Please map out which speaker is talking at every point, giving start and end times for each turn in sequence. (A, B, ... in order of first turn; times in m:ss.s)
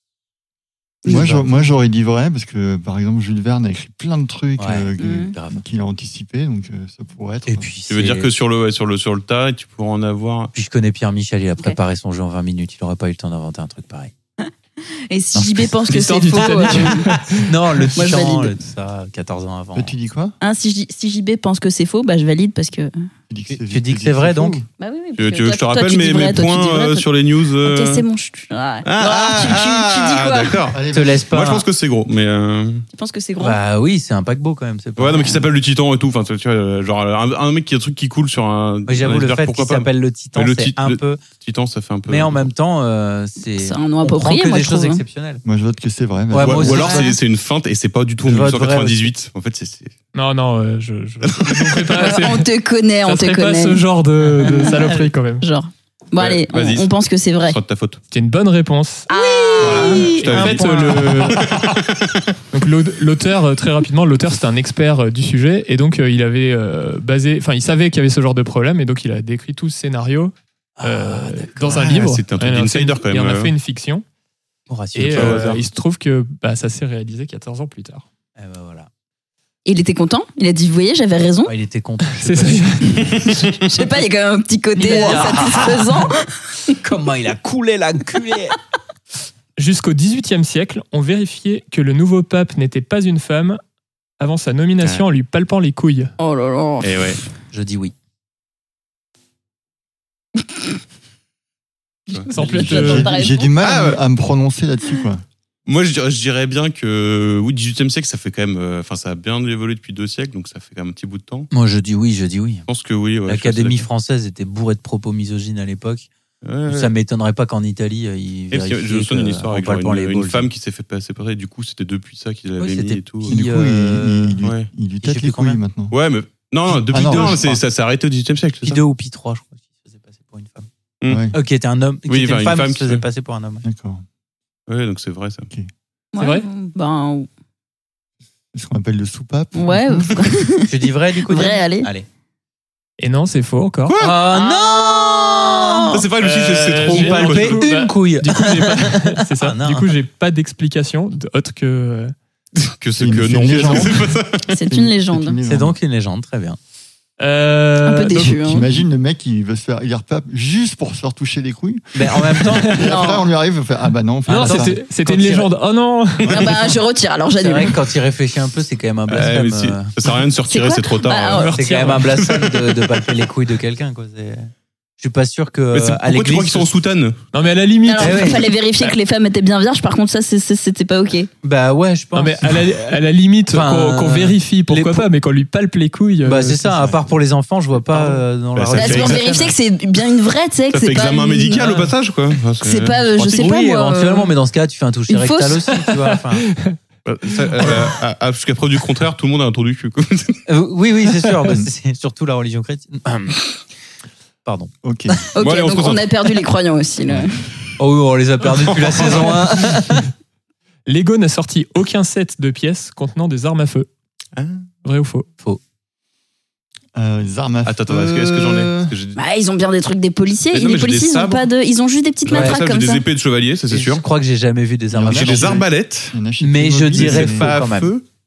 0:01.0-0:07.7 A
0:01.1-0:01.6 B
0:04.6-0:05.6 B
0:05.0-0:05.3 C
0:07.4-0:08.3 B
0:07.9-0:10.5 D
0:10.5-0:14.1 B
0:14.9-0:17.1 C
0:15.3-0:15.7 B
0:15.8-0:17.5 E
0:16.4-0:19.9 B
0:17.9-0:18.5 C
0:19.7-0:20.4 A
0:20.4-0:23.1 C
0:23.3-0:24.6 A
0:23.5-0:24.6 B
0:24.8-0:27.0 C
0:25.2-0:28.0 D
0:27.6-0:30.6 C
0:28.8-0:32.8 D
0:30.7-0:31.2 A
0:30.9-0:31.6 B
0:32.9-0:33.6 C
0:33.4-0:35.3 B
0:35.0-0:42.5 D
0:35.2-0:35.4 C
0:38.9-0:41.2 B
0:42.1-0:45.4 B
0:43.6-0:45.0 C
0:45.4-0:47.1 A
0:46.3-0:47.2 B
0:46.4-0:49.9 D
0:48.2-0:49.1 B
0:50.1-0:52.5 E
0:51.2-0:52.2 D
0:52.1-0:53.8 C
0:53.0-0:55.4 E
0:54.4-0:57.6 C
0:56.2-0:56.9 D
0:57.4-0:58.0 D
0:58.1-0:59.1 E
0:59.1-1:00.5 C
0:59.2-1:01.0 B
0:59.6-1:02.1 D
0:59.8-1:01.4 E
1:02.5-1:14.0 E
1:10.8-1:11.9 B
1:11.7-1:13.5 D
1:14.7-1:15.6 B
1:14.9-1:18.0 E
1:15.1-1:15.6 D
1:18.4-1:18.9 B
1:19.6-1:21.5 C
1:21.4-1:23.0 B
1:22.1-1:23.3 E
1:23.0-1:26.7 C
1:24.8-1:25.9 B
1:24.8-1:25.6 E
1:26.8-1:28.6 B
1:29.6-1:33.6 E
1:34.2-1:36.1 E
1:36.2-1:37.1 C
1:36.8-1:37.2 D
1:37.5-1:37.9 B
1:42.1-1:43.5 C
1:42.3-1:43.1 E
1:42.7-1:45.2 A
1:43.6-1:44.0 D
1:45.6-1:51.5 D
1:51.5-1:52.6 B
1:52.7-1:53.8 D
1:53.2-1:56.1 B
1:56.4-1:56.9 D
1:56.7-2:00.5 B
1:58.5-2:03.4 D
2:02.6-2:04.4 B
2:03.2-2:05.9 A
2:04.4-2:04.7 D
2:05.0-2:05.6 B
2:05.9-2:08.8 D
2:06.7-2:07.6 A
2:06.9-2:07.6 B
2:08.6-2:10.7 B
2:11.0-2:11.3 D
2:11.1-2:11.3 A
2:11.3-2:13.6 B
2:12.1-2:13.0 D
2:13.6-2:14.0 A
2:14.7-2:15.5 D
2:16.1-2:17.3 C
2:16.2-2:16.4 E
2:18.5-2:20.3 A
2:19.5-2:20.7 C
2:20.6-2:22.0 B
2:21.2-2:21.9 C
2:23.0-2:24.0 E
2:23.9-2:24.2 D
2:24.0-2:26.0 B
2:24.3-2:26.0 C
2:25.9-2:27.6 D
2:26.2-2:32.1 E
2:26.8-2:29.9 B
2:32.6-2:34.4 D
2:33.0-2:34.1 A
2:34.5-2:35.4 C
2:34.6-2:35.8 A
2:35.4-2:36.6 B
2:37.2-2:38.6 E
2:37.8-2:38.6 C
2:38.4-2:44.8 A
2:41.9-2:42.8 B
2:42.6-2:42.9 E
2:42.8-2:43.2 C
2:44.3-2:45.5 B
2:44.3-2:46.4 E
2:46.3-2:47.8 C
2:47.4-2:49.9 B
2:49.1-2:51.6 D
2:50.5-2:51.5 C
2:51.3-2:52.3 E
2:51.5-2:56.7 B
2:55.7-2:57.2 D
2:57.3-2:58.9 E
2:57.8-3:01.3 C
2:58.0-2:58.4 B
3:01.4-3:02.8 B
3:02.1-3:06.7 E
3:03.5-3:05.1 B
3:06.2-3:09.5 B
3:07.9-3:08.2 E
3:08.5-3:09.2 D
3:08.7-3:11.6 C
3:10.7-3:13.4 D
3:12.6-3:14.3 C
3:13.2-3:16.5 B
3:15.1-3:15.7 C
3:15.8-3:16.8 E
3:17.0-3:20.4 D
3:17.6-3:17.9 E
3:20.5-3:23.4 B
3:24.4-3:24.7 B
3:24.8-3:25.1 A
3:25.3-3:27.5 C
3:25.4-3:26.1 D
3:27.8-3:30.1 B
3:28.7-3:29.3 D
3:30.8-3:33.9 E
3:34.4-3:34.7 D
3:34.8-3:35.2 E
3:36.9-3:38.9 A
3:37.6-3:39.2 D
3:39.2-3:43.0 C
3:40.5-3:41.4 D
3:42.2-3:44.0 D
3:42.3-3:42.6 B
3:43.7-3:45.6 B
3:44.9-3:47.5 A
3:45.1-3:46.2 D
3:46.4-3:47.9 B
3:46.9-3:48.0 D